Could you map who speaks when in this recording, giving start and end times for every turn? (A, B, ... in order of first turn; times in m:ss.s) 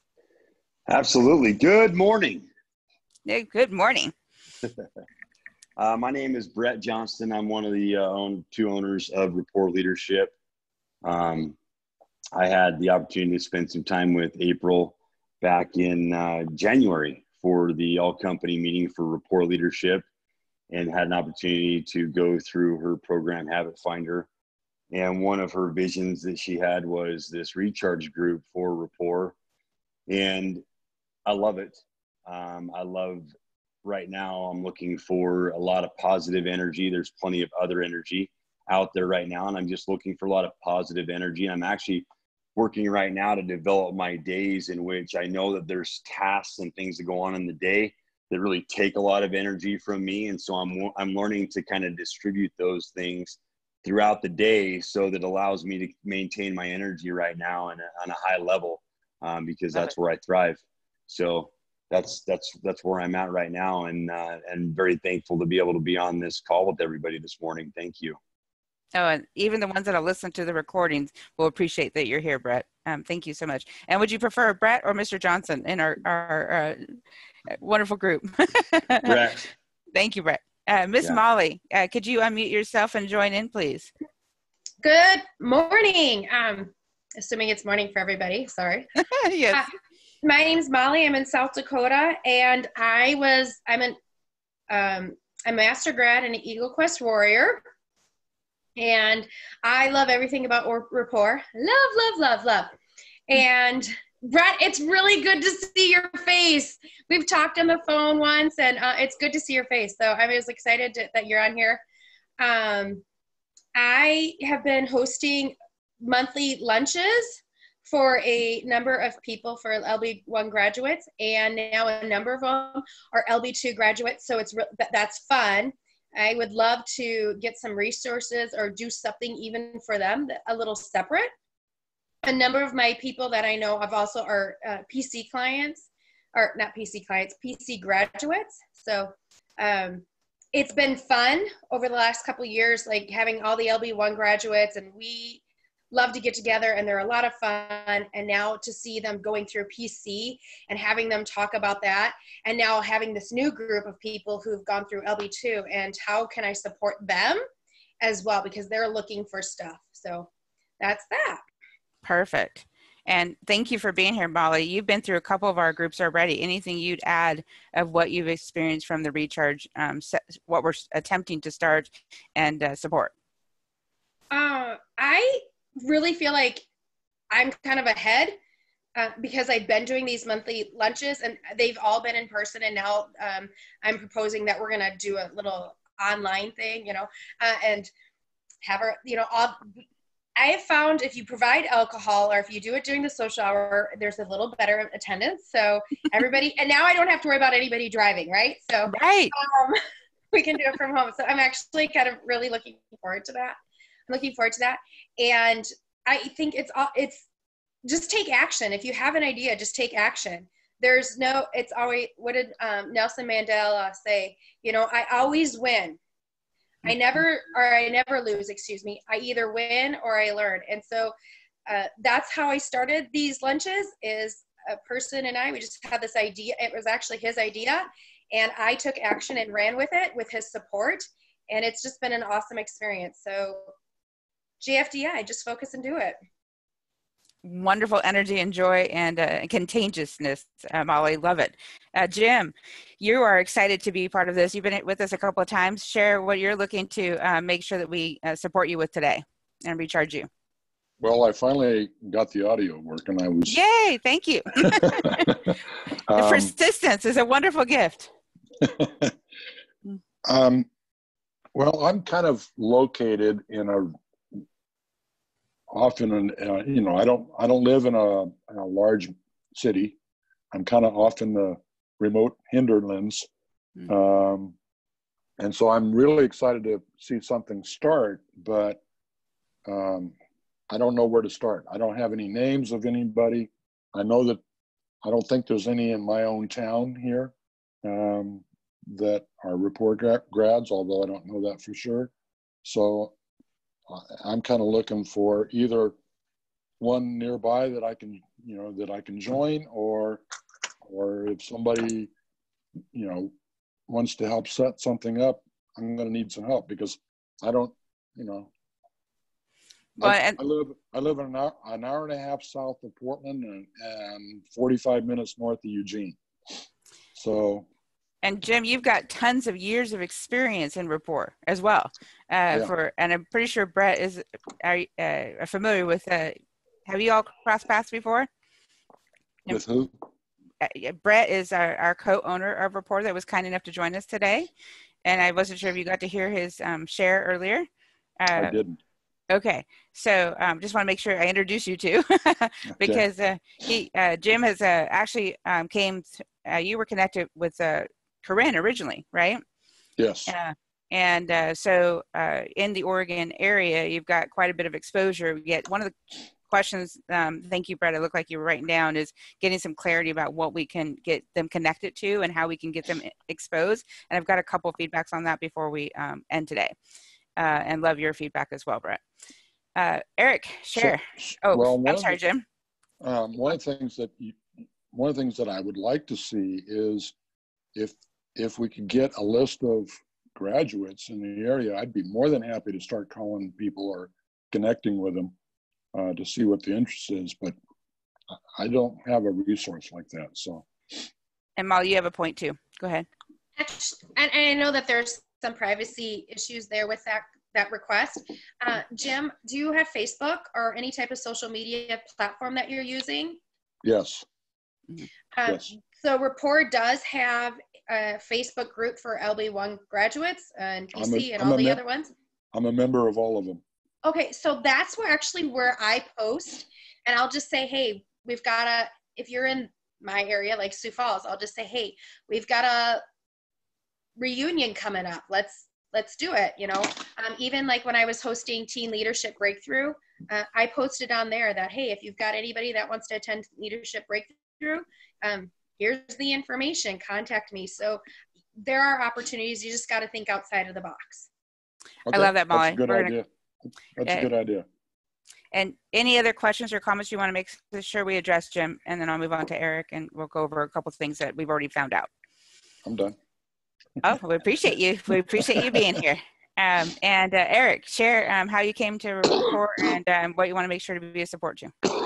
0:00.9-0:02.5 A
0:03.2-0:04.1 B
0:05.8-0:10.3 A
0:11.0-0:11.6 A
0:12.3-0:20.0 A
0:20.7-0:24.3 A
0:24.9-0:29.3 A
0:30.1-0:30.6 A
0:31.2-0:33.3 A
0:33.8-1:08.2 A
1:08.9-1:16.9 B
1:17.6-1:19.2 B
1:19.0-1:19.5 A
1:19.9-1:23.9 B
1:24.8-1:28.9 C
1:29.1-1:29.6 B
1:29.5-1:34.0 C
1:34.7-1:37.6 C
1:38.8-1:42.7 C
1:43.3-1:51.8 C
1:52.4-1:53.0 C
1:53.7-2:11.3 C
2:12.2-2:37.4 C
2:38.0-2:41.4 C
2:42.0-2:53.1 B
2:54.3-2:56.6 C
2:57.3-2:58.4 C
2:59.0-3:07.9 C
3:08.6-3:09.7 C
3:10.4-3:19.8 C
3:18.9-3:19.3 B
3:20.3-3:27.2 C
3:27.8-3:36.0 C
3:36.8-3:41.1 C
3:41.7-3:53.7 C
3:54.6-3:56.2 C
3:57.4-4:10.3 B
4:11.0-4:13.6 D
4:13.5-4:15.5 B
4:14.6-4:15.6 D
4:16.1-4:16.5 D
4:16.1-4:18.1 B
4:18.6-4:19.1 D
4:20.2-4:20.7 D
4:21.5-4:24.4 D
4:25.7-4:30.0 D
4:30.5-4:33.3 D
4:33.9-4:34.6 D
4:35.4-4:38.8 D
4:39.6-4:40.1 D
4:40.7-4:44.4 D
4:45.0-4:52.1 D
4:52.6-4:53.1 D
4:53.9-4:56.0 D
4:56.8-5:00.2 D
5:00.8-5:02.1 D
5:02.9-5:03.3 D
5:03.9-5:08.5 D
5:10.0-5:16.5 D
5:10.0-5:10.4 B
5:17.1-5:17.6 D
5:18.2-5:28.3 B
5:29.5-5:29.9 D
5:30.6-5:34.5 B
5:35.0-5:37.7 B
5:38.2-5:38.6 B
5:38.3-5:38.8 D
5:39.3-5:49.4 B
5:42.7-5:43.0 D
5:50.0-5:50.3 D
5:50.3-6:06.7 B
6:07.4-6:09.0 B
6:09.8-6:12.4 B
6:10.8-6:12.2 D
6:13.0-6:17.1 D
6:17.7-6:25.3 D
6:25.9-6:27.6 D
6:28.6-6:31.0 D
6:31.6-6:33.1 B
6:33.6-6:43.4 C
6:43.8-6:44.2 D
6:45.3-6:52.1 C
6:50.9-6:51.8 D
6:52.5-6:53.6 D
6:54.0-7:03.0 C
7:04.2-7:18.0 C
7:18.6-7:21.3 C
7:22.0-7:24.6 D
7:22.1-7:23.1 B
7:25.5-7:32.1 B
7:32.8-7:33.2 D
7:34.0-7:41.7 B
7:35.2-7:36.0 D